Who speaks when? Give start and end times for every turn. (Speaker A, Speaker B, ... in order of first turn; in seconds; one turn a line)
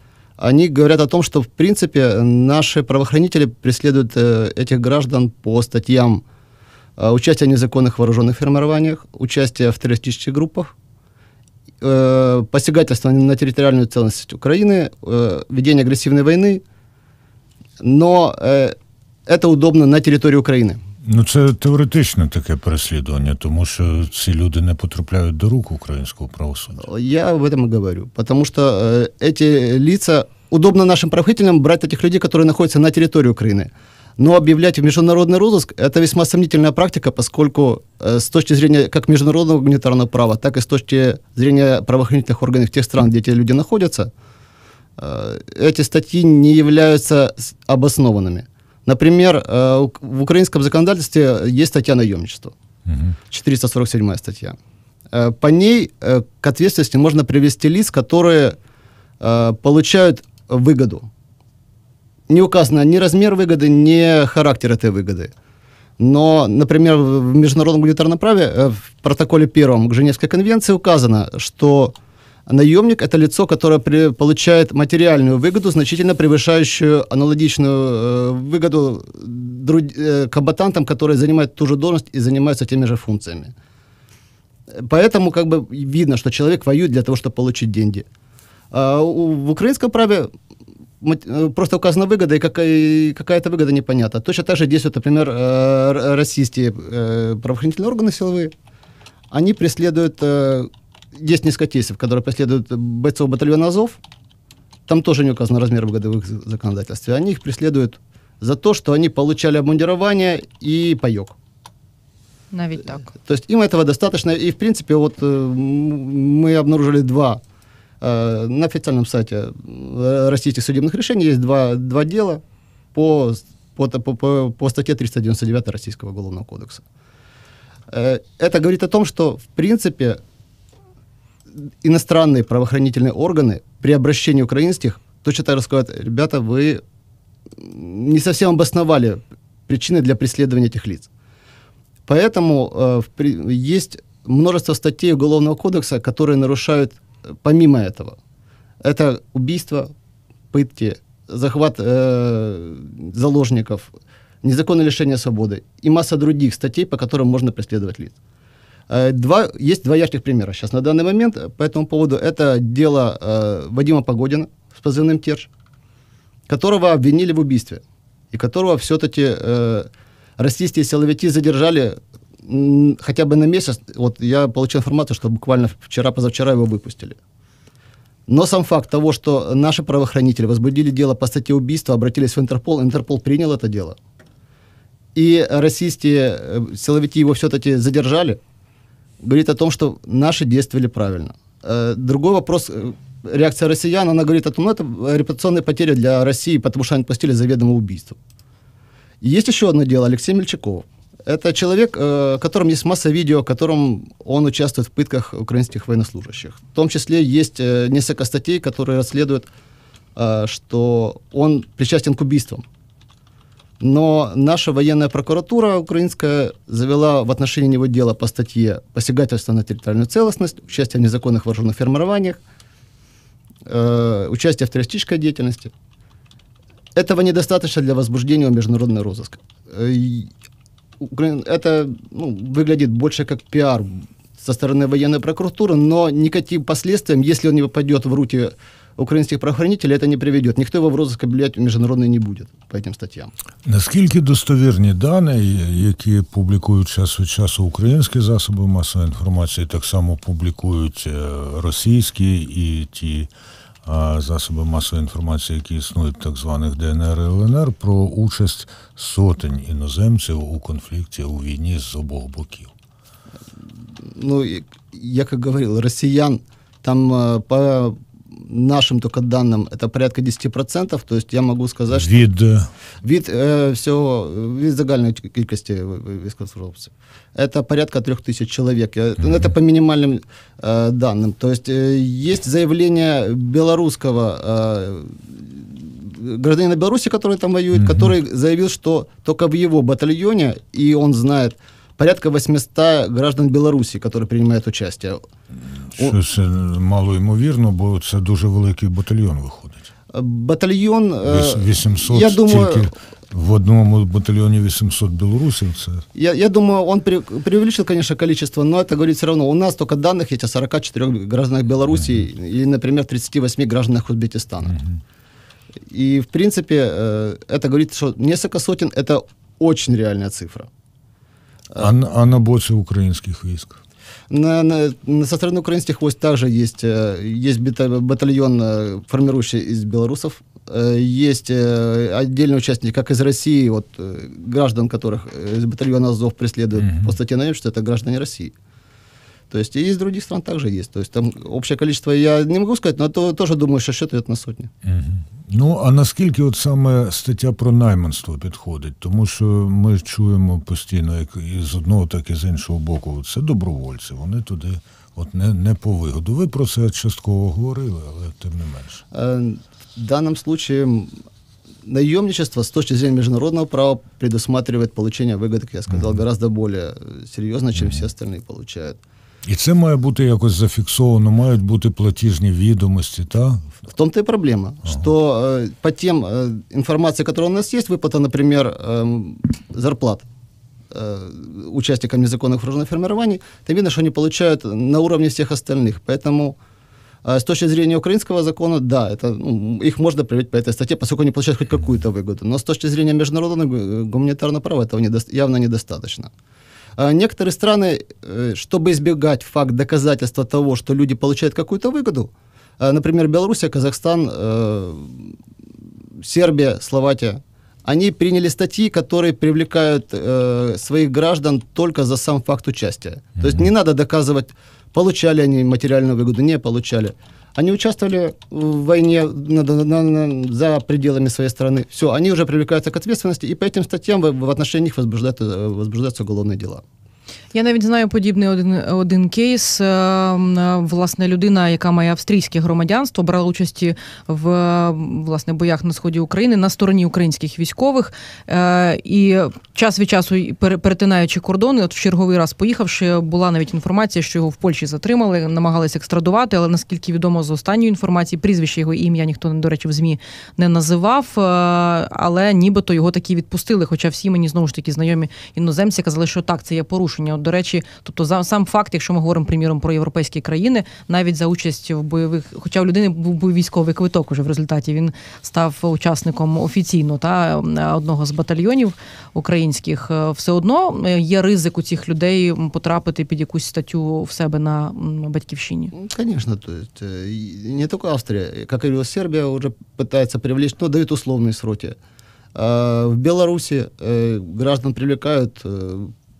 Speaker A: 0.4-6.2
Speaker A: 7.0-10.7
Speaker A: 11.8-16.6
Speaker A: 17.8-18.8
Speaker A: 19.3-20.8
Speaker B: 21.0-26.8
Speaker A: 26.8-44.1
Speaker A: 45.0-52.5
Speaker B: 52.9-53.1
Speaker A: 53.3-54.6
Speaker A: 55.1-58.6
Speaker A: 59.2-61.1
Speaker A: 62.3-65.3
Speaker A: 66.0-71.9
Speaker A: 72.5-83.5
Speaker A: 84.7-88.0
Speaker A: 88.7-90.3
Speaker A: 91.0-98.5
Speaker A: 99.3-104.0
Speaker A: 104.9-111.3
Speaker C: 112.5-113.1
Speaker A: 113.0-117.4
Speaker A: 118.0-122.4
Speaker A: 122.9-126.8
Speaker A: 127.9-130.2
Speaker A: 131.6-136.8
Speaker A: 137.6-141.1
Speaker A: 142.1-148.2
Speaker A: 148.8-149.9
Speaker A: 150.5-153.9
Speaker A: 154.4-158.2
Speaker A: 158.9-165.5
Speaker A: 166.5-177.2
Speaker A: 178.3-184.0
Speaker A: 185.1-188.4
Speaker A: 189.2-198.2
Speaker A: 199.2-209.5
Speaker A: 210.2-212.6
Speaker A: 213.8-222.4
Speaker A: 223.6-225.7
Speaker A: 226.9-230.3
Speaker A: 231.0-243.3
Speaker B: 243.7-253.3
Speaker B: 253.8-262.7
Speaker A: 264.0-272.2
Speaker B: 271.9-272.7
Speaker A: 273.0-295.2
Speaker B: 287.7-288.1
Speaker B: 295.9-299.9
Speaker A: 300.1-302.9
Speaker B: 301.2-306.0
Speaker A: 306.1-314.8
Speaker B: 314.7-315.0
Speaker A: 315.9-320.7
Speaker B: 321.8-323.8
Speaker A: 324.3-338.5
Speaker B: 336.8-337.1
Speaker A: 339.5-344.7
Speaker B: 344.8-359.0
Speaker A: 359.1-361.1
Speaker A: 361.8-369.0
Speaker B: 367.8-368.1
Speaker B: 369.4-373.8
Speaker A: 373.8-380.3
Speaker A: 380.9-386.6
Speaker A: 387.2-396.3
Speaker A: 397.0-405.4
Speaker A: 406.2-426.8
Speaker B: 413.4-413.7
Speaker C: 427.5-475.9
Speaker A: 475.9-482.0
Speaker A: 482.5-486.1